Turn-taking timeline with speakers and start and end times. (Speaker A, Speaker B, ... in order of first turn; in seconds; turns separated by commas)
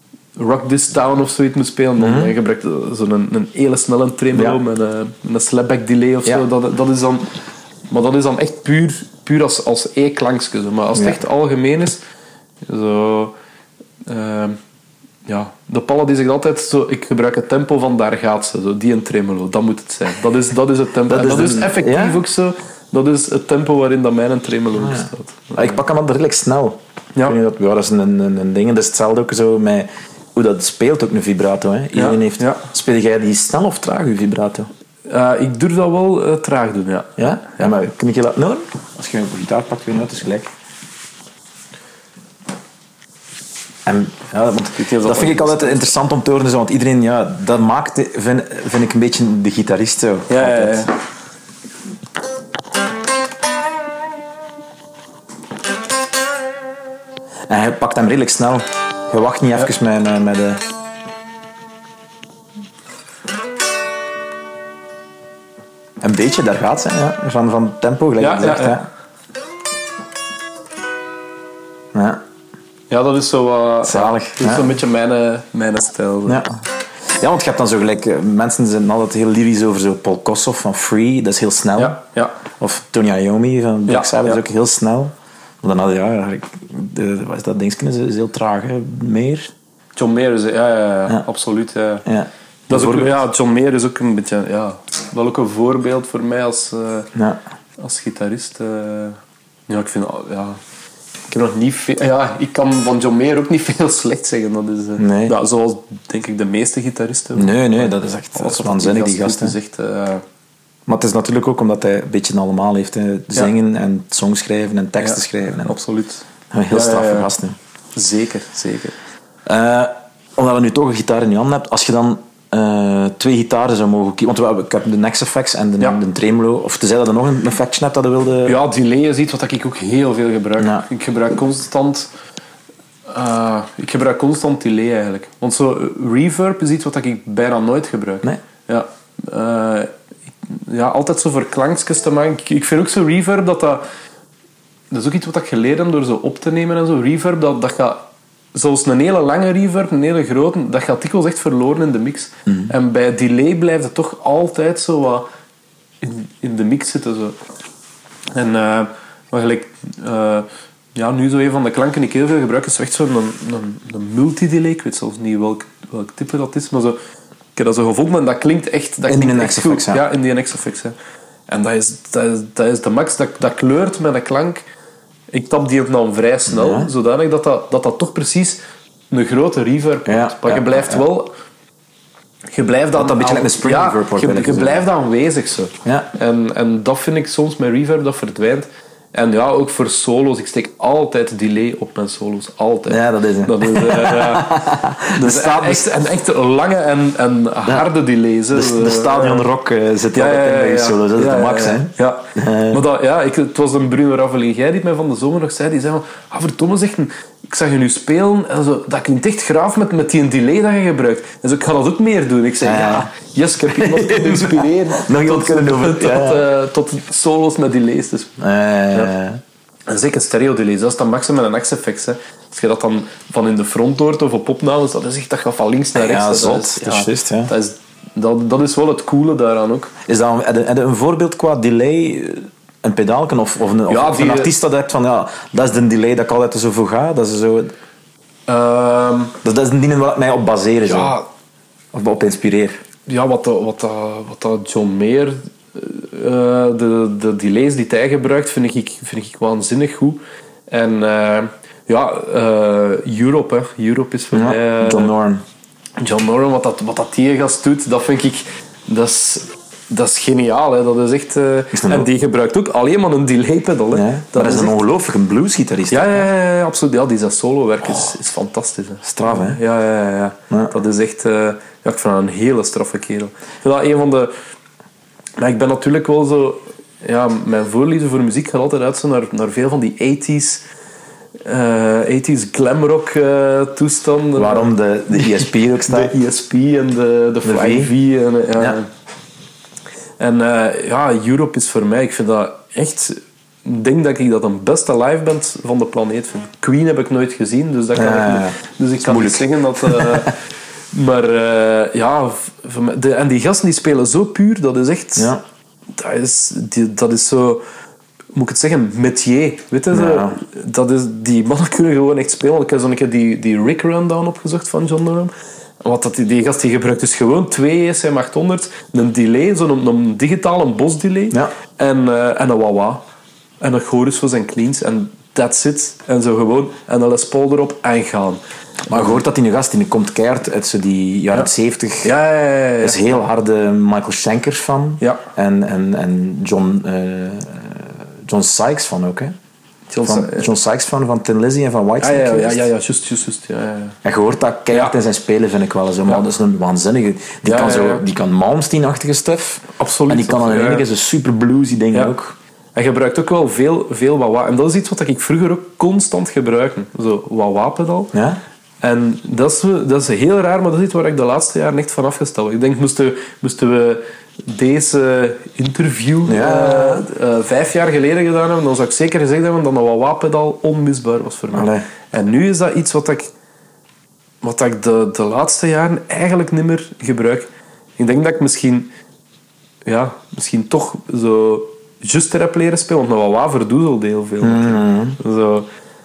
Speaker A: 0.3-7.3, Speaker B: 2.0-2.3, Speaker B: 4.3-4.6, Speaker A: 7.9-12.0, Speaker B: 10.9-11.2, Speaker A: 12.7-13.3, Speaker A: 14.1-14.6, Speaker A: 15.2-25.8, Speaker B: 21.1-22.2, Speaker B: 24.7-34.7, Speaker A: 31.9-32.6, Speaker A: 35.0-37.7, Speaker B: 37.2-40.5, Speaker B: 43.9-50.9, Speaker A: 44.7-45.9, Speaker A: 50.3-50.9, Speaker B: 57.5-60.6, Speaker B: 66.0-68.9, Speaker A: 68.2-68.8, Speaker B: 71.9-72.2, Speaker A: 72.9-76.4, Speaker B: 73.8-74.7, Speaker B: 76.2-82.0, Speaker A: 81.8-82.3, Speaker B: 82.6-89.5, Speaker A: 83.9-84.4, Speaker A: 90.0-92.0, Speaker B: 92.0-93.1, Speaker A: 92.7-97.1, Speaker B: 97.1-97.4, Speaker A: 97.8-100.6, Speaker A: 101.3-110.2, Speaker B: 105.0-105.3, Speaker B: 107.3-109.5, Speaker B: 110.9-115.8, Speaker A: 115.0-117.3, Speaker B: 116.5-117.5, Speaker A: 118.0-118.9, Speaker B: 119.5-128.6, Speaker A: 128.4-132.1, Speaker B: 130.6-130.8, Speaker A: 133.1-139.9, Speaker A: 140.5-143.8, Speaker A: 144.9-148.0, Speaker A: 148.5-155.2, Speaker A: 156.0-157.3, Speaker A: 158.3-167.0, Speaker A: 167.6-170.9, Speaker B: 169.1-170.0, Speaker A: 171.5-174.6, Speaker A: 175.3-178.6, Speaker B: 176.5-176.9, Speaker A: 179.1-181.3, Speaker B: 180.1-181.0, Speaker A: 182.5-194.6, Speaker B: 182.9-184.8, Speaker B: 185.8-186.1, Speaker B: 192.9-195.9, Speaker A: 195.1-199.4, Speaker B: 198.5-202.8, Speaker A: 200.1-218.3, Speaker B: 212.6-213.1, Speaker B: 213.7-216.4, Speaker B: 218.4-219.4, Speaker A: 219.9-229.9, Speaker B: 225.9-227.5, Speaker B: 230.1-237.7, Speaker A: 233.9-234.5, Speaker A: 238.5-239.3, Speaker B: 239.4-241.1, Speaker A: 240.9-241.2, Speaker B: 241.9-242.8, Speaker A: 243.1-255.1, Speaker B: 254.3-255.4, Speaker A: 256.0-264.7, Speaker B: 261.7-262.1, Speaker B: 263.9-266.3, Speaker A: 265.9-274.3, Speaker B: 269.0-269.6, Speaker A: 275.4-280.6, Speaker A: 281.4-288.9, Speaker B: 284.4-286.2, Speaker B: 287.4-287.9, Speaker A: 290.2-300.3, Speaker B: 297.9-300.3, Speaker A: 300.9-305.3, Speaker A: 306.0-307.6, Speaker A: 308.3-323.0, Speaker B: 309.9-310.4, Speaker A: 323.6-329.2, Speaker B: 328.9-332.1, Speaker A: 332.0-333.2, Speaker B: 332.8-339.3, Speaker A: 339.9-340.5, Speaker B: 340.0-342.7, Speaker A: 342.0-344.0, Speaker B: 344.0-352.3, Speaker A: 344.7-344.9, Speaker A: 347.4-348.0, Speaker A: 349.8-350.8, Speaker A: 352.7-358.1, Speaker B: 358.1-358.4, Speaker A: 358.8-373.3, Speaker B: 366.3-367.1, Speaker B: 371.5-371.8, Speaker A: 374.4-377.5, Speaker A: 378.0-378.9, Speaker A: 379.9-385.7, Speaker B: 384.4-385.2